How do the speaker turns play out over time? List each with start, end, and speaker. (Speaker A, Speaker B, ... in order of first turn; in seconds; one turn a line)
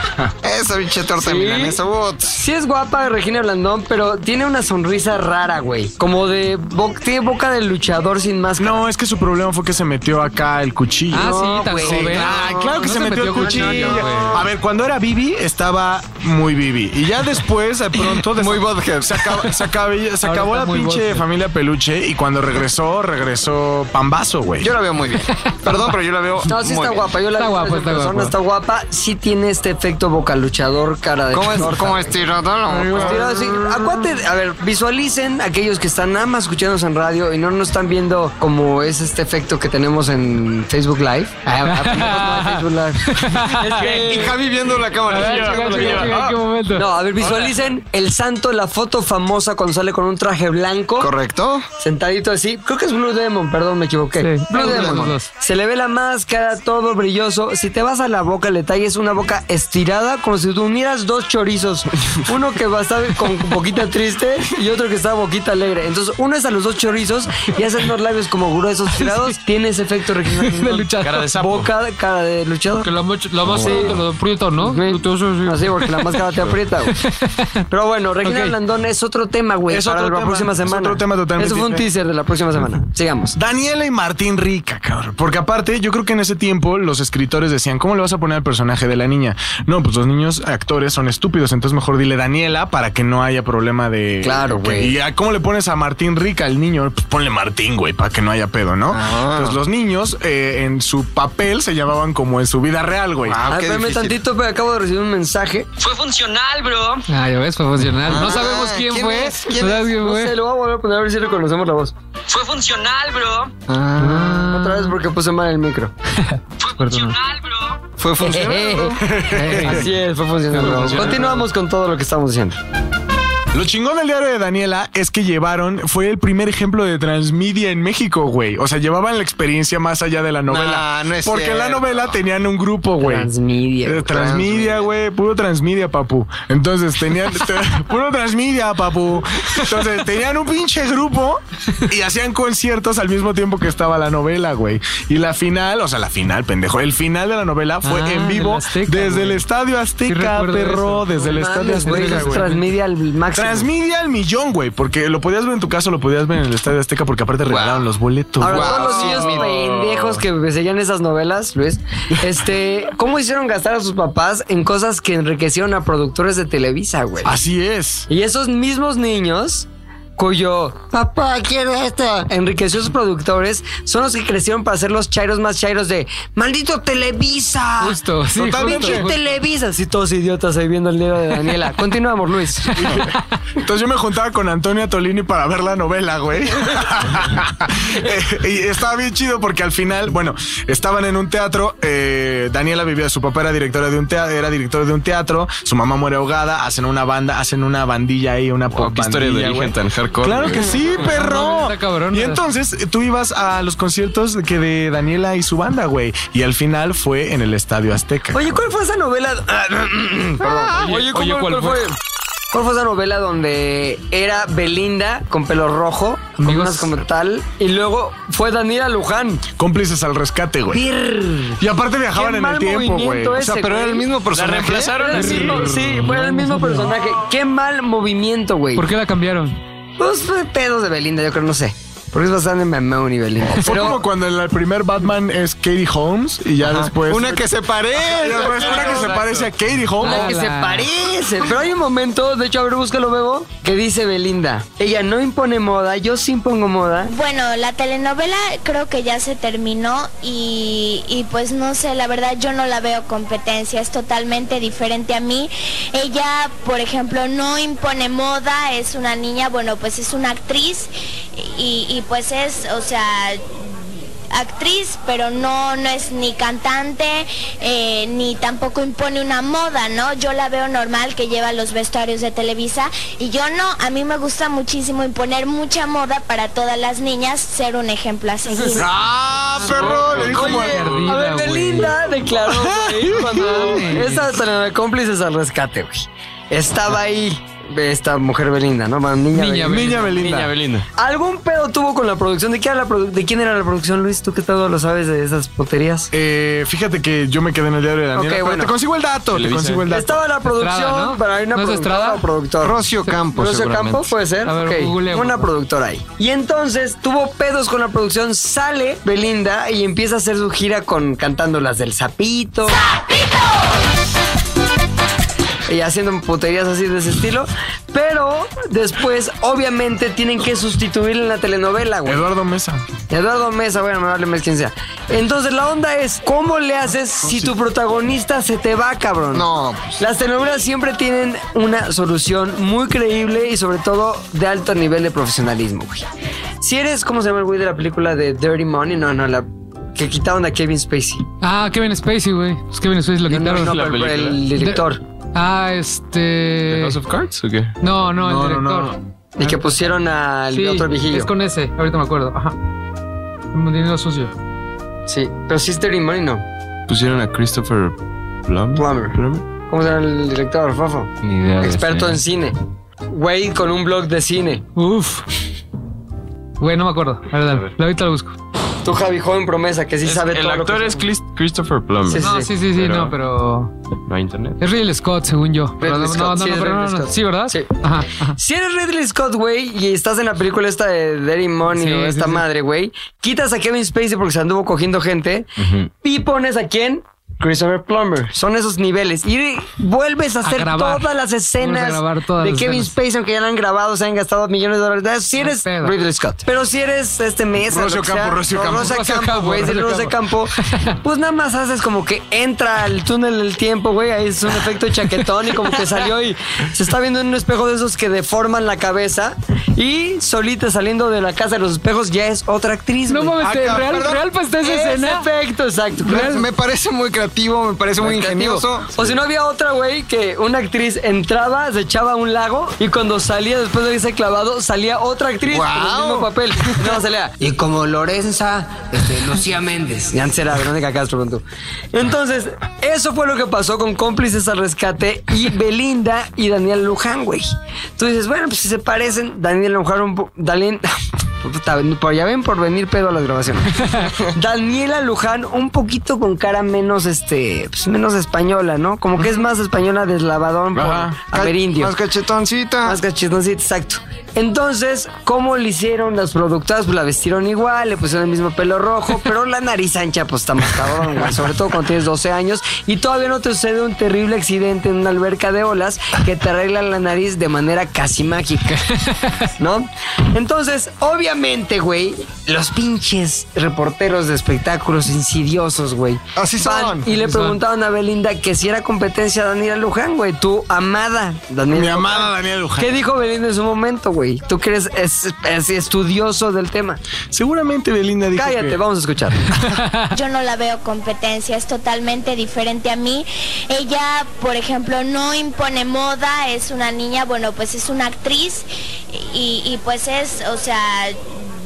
Speaker A: 0.4-2.4
Speaker B: 1.2-1.8
Speaker B: 2.3-8.8
Speaker C: 8.6-24.7
Speaker D: 11.1-14.4
Speaker B: 11.1-12.8
Speaker B: 13.4-14.3
Speaker A: 18.0-19.5
Speaker D: 20.2-21.2
Speaker A: 24.6-27.1
Speaker B: 26.5-32.1
Speaker D: 27.4-28.3
Speaker A: 31.3-33.5
Speaker C: 32.7-33.2
Speaker B: 32.9-44.4
Speaker D: 41.6-44.3
Speaker A: 43.8-46.2
Speaker D: 45.0-46.9
Speaker E: 45.2-46.2
Speaker B: 46.7-51.1
Speaker E: 47.2-47.5
Speaker A: 51.0-51.6
Speaker B: 51.8-72.9
Speaker D: 54.2-55.3
Speaker A: 54.6-55.1
Speaker D: 69.0-69.3
Speaker D: 70.3-71.3
Speaker E: 71.0-71.7
Speaker D: 72.8-76.2
Speaker E: 73.5-73.9
Speaker B: 73.5-74.0
Speaker B: 74.6-77.0
Speaker D: 76.9-77.6
Speaker B: 77.7-83.3
Speaker D: 78.2-78.5
Speaker C: 79.7-81.9
Speaker C: 83.3-103.4
Speaker B: 94.2-94.9
Speaker A: 98.9-99.6
Speaker A: 103.2-104.2
Speaker B: 103.5-105.7
Speaker D: 107.1-110.3
Speaker A: 108.0-109.9
Speaker B: 109.9-111.9
Speaker A: 113.7-114.5
Speaker D: 114.0-114.9
Speaker B: 114.4-115.9
Speaker D: 116.2-117.2
Speaker A: 118.0-119.2
Speaker B: 118.2-119.0
Speaker C: 119.0-119.9
Speaker D: 119.3-119.9
Speaker B: 119.5-122.6
Speaker D: 120.5-121.2
Speaker E: 120.8-121.4
Speaker C: 123.5-133.3
Speaker A: 130.5-132.1
Speaker B: 133.0-134.1
Speaker C: 133.8-152.5
Speaker A: 134.1-134.9
Speaker D: 147.8-149.4
Speaker D: 150.0-152.7
Speaker B: 151.3-153.7
Speaker C: 153.3-160.1
Speaker A: 157.5-157.8
Speaker B: 158.4-167.3
Speaker A: 158.4-159.6
Speaker C: 167.2-168.1
Speaker B: 168.1-178.0
Speaker D: 177.8-179.2
Speaker C: 178.3-179.1
Speaker B: 178.6-182.9
Speaker D: 182.8-183.2
Speaker C: 182.8-208.6
Speaker E: 198.7-200.9
Speaker D: 200.9-202.4
Speaker B: 208.3-212.0
Speaker D: 210.7-211.9
Speaker B: 212.5-219.4
Speaker D: 216.4-217.0
Speaker C: 219.6-220.8
Speaker B: 220.7-221.6
Speaker C: 221.6-223.6
Speaker B: 222.1-224.1
Speaker A: 223.4-225.1
Speaker E: 224.3-225.7
Speaker B: 224.9-228.8
Speaker D: 225.1-226.9
Speaker D: 228.8-229.6
Speaker B: 230.0-234.0
Speaker C: 233.5-237.5
Speaker A: 236.6-239.2
Speaker C: 238.1-240.3
Speaker E: 238.1-239.5
Speaker D: 240.0-240.9
Speaker B: 240.0-247.1
Speaker F: 247.1-263.6
Speaker F: 264.3-278.9
Speaker C: 278.8-281.0
Speaker D: 279.6-282.0
Speaker E: 280.0-280.3
Speaker B: 280.1-289.8
Speaker C: 282.5-283.7
Speaker D: 283.4-284.3
Speaker D: 289.3-290.3
Speaker C: 289.6-290.5
Speaker E: 290.2-290.9
Speaker B: 290.9-296.1
Speaker C: 296.1-300.2
Speaker B: 298.1-298.7
Speaker E: 299.3-299.9
Speaker B: 299.9-302.8
Speaker D: 300.5-302.2
Speaker A: 302.6-304.1
Speaker B: 303.3-312.8
Speaker D: 304.4-305.5
Speaker B: 315.7-322.2
Speaker C: 322.1-322.8
Speaker B: 323.1-329.4
Speaker A: 329.3-330.0
Speaker B: 330.0-336.1
Speaker B: 336.6-341.2
Speaker D: 341.4-343.8
Speaker B: 343.3-345.0
Speaker E: 343.5-344.4
Speaker D: 344.6-344.8
Speaker D: 345.3-347.0
Speaker E: 346.7-347.8
Speaker D: 347.8-349.8
Speaker C: 348.2-349.0
Speaker B: 349.4-351.3
Speaker D: 350.5-352.5
Speaker D: 353.5-354.3
Speaker B: 355.1-356.4
Speaker E: 356.9-359.4
Speaker B: 358.7-362.6
Speaker E: 361.2-362.2
Speaker B: 363.1-364.6
Speaker D: 364.8-365.2
Speaker D: 366.6-368.3
Speaker B: 368.8-371.1
Speaker E: 370.0-373.1
Speaker B: 372.1-372.5
Speaker D: 372.2-373.7
Speaker E: 374.1-374.6
Speaker D: 374.6-378.4
Speaker B: 375.8-377.7
Speaker B: 378.4-413.4
Speaker D: 381.7-382.4
Speaker D: 390.4-391.1
Speaker D: 391.6-392.9
Speaker D: 395.4-395.9
Speaker C: 397.6-399.0
Speaker D: 398.7-400.9
Speaker D: 413.1-415.3
Speaker C: 413.4-414.2
Speaker A: 413.7-414.1
Speaker B: 414.6-416.4
Speaker D: 416.1-416.4
Speaker A: 416.1-419.1
Speaker B: 418.0-440.9
Speaker A: 425.5-426.9
Speaker B: 441.4-451.9
Speaker C: 450.7-451.2
Speaker A: 451.3-453.0
Speaker B: 452.8-468.9
Speaker D: 469.0-469.5
Speaker B: 469.6-487.0
Speaker A: 476.4-477.1
Speaker D: 477.1-477.6
Speaker C: 481.7-482.9
Speaker C: 487.3-488.8
Speaker B: 488.3-489.5
Speaker C: 489.5-489.8
Speaker D: 489.8-490.1
Speaker F: 490.1-501.3